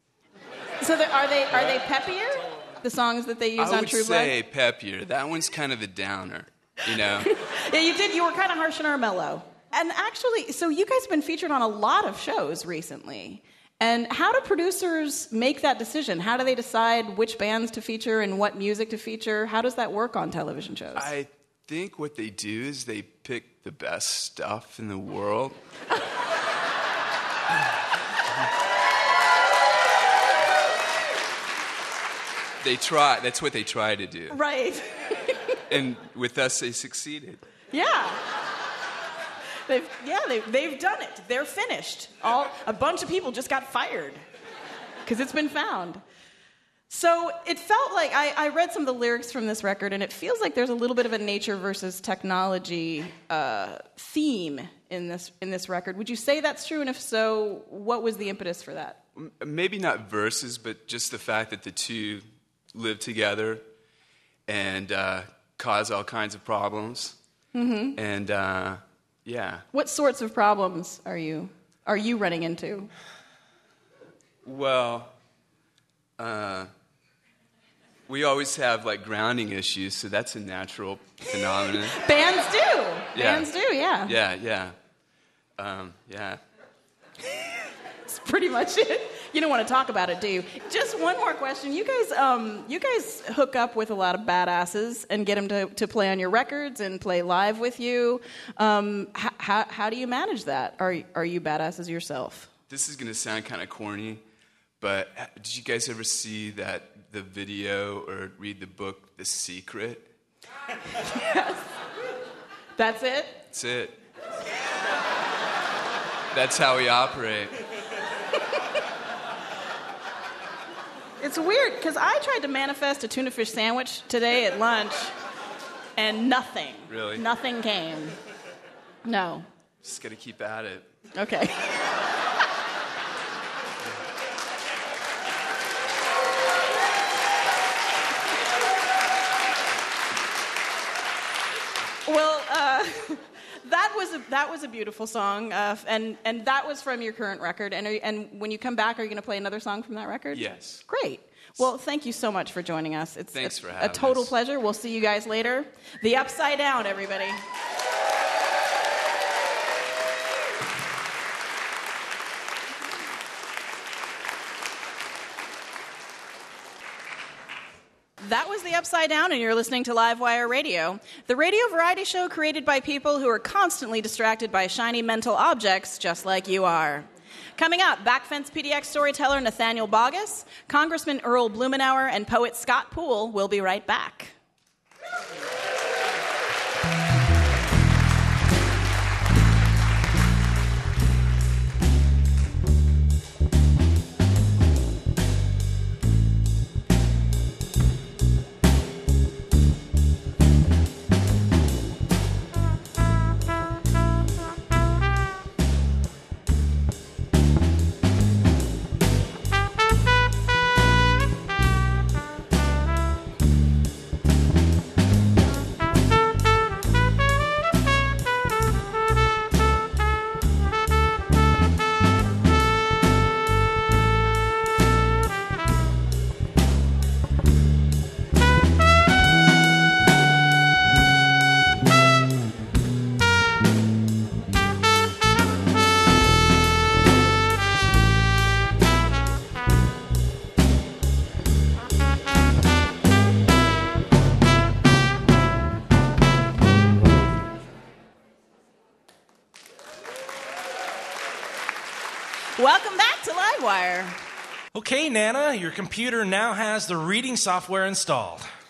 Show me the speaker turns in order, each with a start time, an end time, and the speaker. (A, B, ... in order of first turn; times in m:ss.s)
0:00.8-0:04.4 A
0:03.6-0:07.3 B
0:07.4-0:21.1 A
0:20.9-0:25.6 B
0:32.6-0:34.4 B
0:34.3-0:35.6 A
0:35.7-0:37.4 B
0:37.7-0:38.2 A
0:39.7-0:44.2 A
0:45.0-0:46.0 A
0:46.9-0:59.0 A
0:59.2-1:03.6 B
1:04.5-1:07.2 B
1:07.5-1:08.0 A
1:07.9-1:09.6 B
1:09.7-1:12.9 A
1:14.4-1:15.1 B
1:16.2-1:16.7 B
1:18.1-1:22.0 B
1:22.0-1:24.1 A
1:23.1-1:23.5 B
1:24.0-1:24.7 B
1:25.6-1:26.4 B
1:28.1-1:42.5 A
1:42.7-1:44.2 B
1:44.8-1:50.1 B
1:51.1-1:51.6 A
1:52.8-1:53.4 A
1:53.5-1:54.0 B
1:56.3-1:57.6 B
2:01.2-2:05.1 A
2:06.0-2:08.2 A
2:06.9-2:07.2 B
2:09.0-2:09.4 A
2:09.8-2:10.9 B
2:11.1-2:11.6 A
2:22.0-2:37.4 A
2:30.3-2:30.8 B
2:33.3-2:34.3 B
2:48.2-3:04.3 A
4:12.6-4:14.2 A
4:14.7-4:18.4 C